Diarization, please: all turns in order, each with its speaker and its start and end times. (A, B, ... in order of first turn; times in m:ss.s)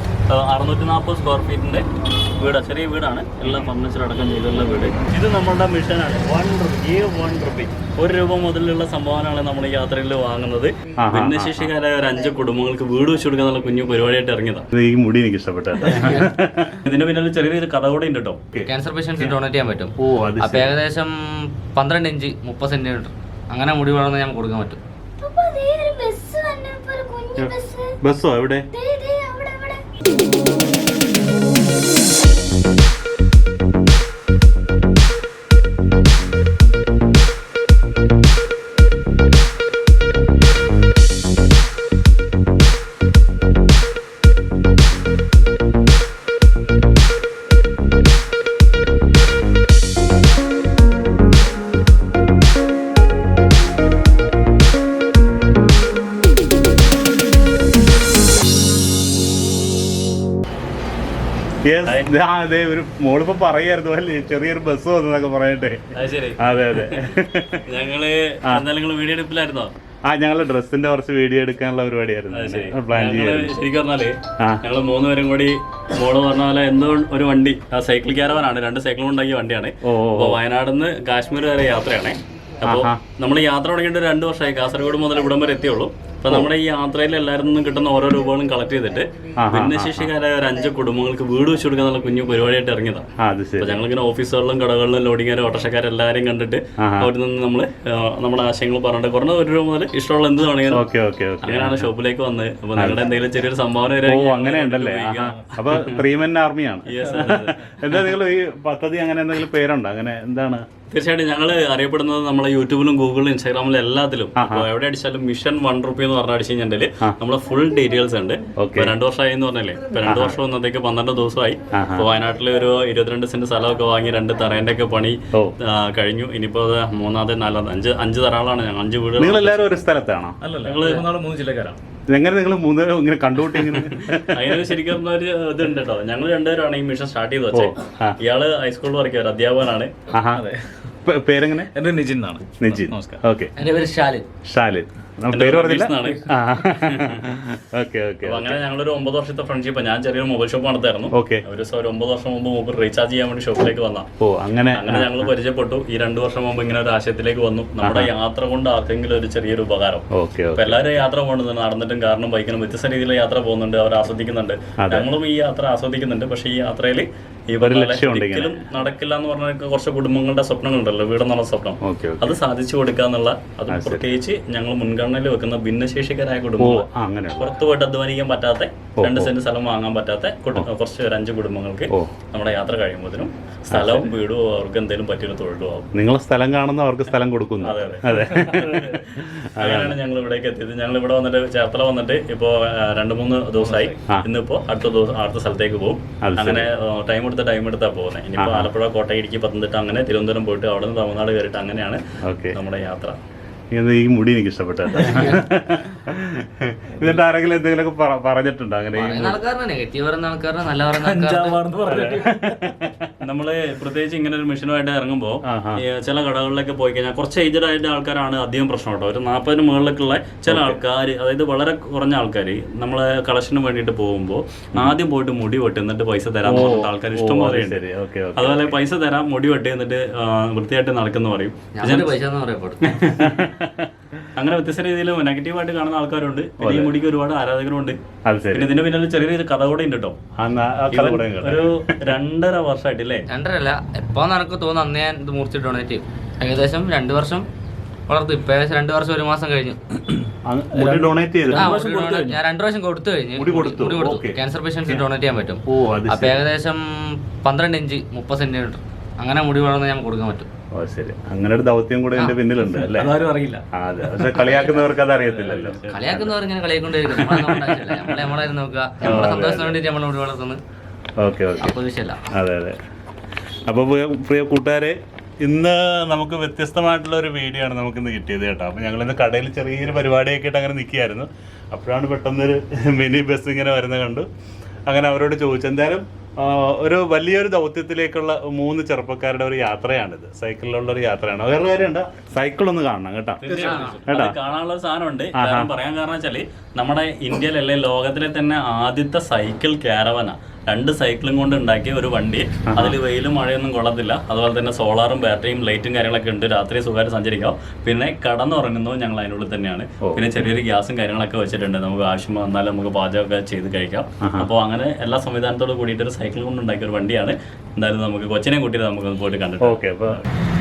0:00.3-0:01.9 A
0:02.4-0:14.7 A
0:03.4-0:03.7 B
0:11.0-0:11.7 B
0:14.7-0:16.8 B
0:15.9-0:18.4 A
0:18.5-0:19.4 B
0:18.7-0:24.8 C
0:20.0-0:20.8 B
0:25.2-0:28.0 D
0:27.4-0:28.7 B
0:28.7-0:29.8 D
1:01.6-1:07.6 B
1:01.8-1:02.1 A
1:05.9-1:09.7 A
1:10.1-1:13.5 B
1:12.3-1:33.1 A
1:19.8-1:20.4 B
1:22.7-1:23.0 B
1:29.4-1:30.1 B
1:33.2-1:33.8 B
1:33.6-1:40.8 A
1:36.8-1:37.1 B
1:40.7-1:41.9 B
1:41.4-1:46.0 A
1:42.8-1:43.1 B
1:44.0-1:50.6 B
1:46.9-1:47.9 A
1:50.9-2:09.8 A
1:54.4-1:54.7 B
1:58.6-1:58.9 B
2:00.1-2:00.4 B
2:01.7-2:02.1 B
2:09.2-2:10.4 B
2:10.4-2:11.8 E
2:10.6-2:11.1 A
2:12.1-2:14.8 B
2:14.0-2:19.9 A
2:17.5-2:18.2 B
2:20.1-2:20.5 B
2:20.3-2:20.9 E
2:21.0-2:21.7 B
2:21.7-2:23.2 E
2:22.6-2:23.5 B
2:23.6-2:24.2 C
2:24.5-2:28.6 B
2:25.3-2:27.2 A
2:28.2-2:34.1 A
2:31.1-2:31.4 B
2:34.2-2:35.3 B
2:34.7-3:05.9 A
2:37.8-2:38.1 B
2:40.1-2:41.0 B
2:44.8-2:45.1 B
2:47.6-2:48.6 B
2:51.8-2:52.4 B
2:53.7-2:54.1 B
2:56.6-2:57.6 B
2:59.0-2:59.3 B
3:03.7-3:04.1 B
3:05.9-3:10.0 B
3:07.6-3:22.0 A
3:13.6-3:14.0 E
3:16.2-3:16.7 B
3:18.4-3:18.7 B
3:22.2-3:22.6 B
3:22.5-3:23.2 A
3:23.7-3:29.4 B
3:28.9-3:31.8 C
3:31.2-3:32.8 E
3:31.8-3:33.1 B
3:33.2-3:47.8 A
3:35.5-3:35.8 B
3:40.5-3:40.8 B
3:46.4-3:48.8 B
3:48.4-3:52.2 A
3:51.8-3:53.0 C
3:52.9-3:53.4 A
3:53.2-3:53.9 B
3:54.3-3:58.0 A
3:56.6-3:56.9 B
3:58.2-3:58.8 B
3:58.5-4:00.2 A
4:00.4-4:02.2 B
4:00.9-4:03.3 A
4:03.3-4:07.5 C
4:08.1-4:09.8 C
4:10.4-4:11.8 B
4:11.4-4:12.4 A
4:11.5-4:20.5 C
4:13.4-4:15.1 B
4:15.7-4:16.4 B
4:20.7-4:25.8 B
4:23.0-4:23.6 E
4:24.2-4:24.9 C
4:25.0-4:26.3 A
4:25.9-4:30.6 C
4:27.2-4:27.9 B
4:29.0-4:29.8 B
4:31.2-4:31.8 B
4:31.6-4:32.2 C
4:32.3-4:32.8 B
4:33.7-4:44.2 B
4:44.9-4:54.4 B
4:53.4-5:20.3 A
4:53.6-4:54.0 C
4:55.4-4:55.7 B
5:02.7-5:03.0 B
5:10.0-5:10.4 B
5:14.2-5:14.5 B
5:19.6-5:20.2 B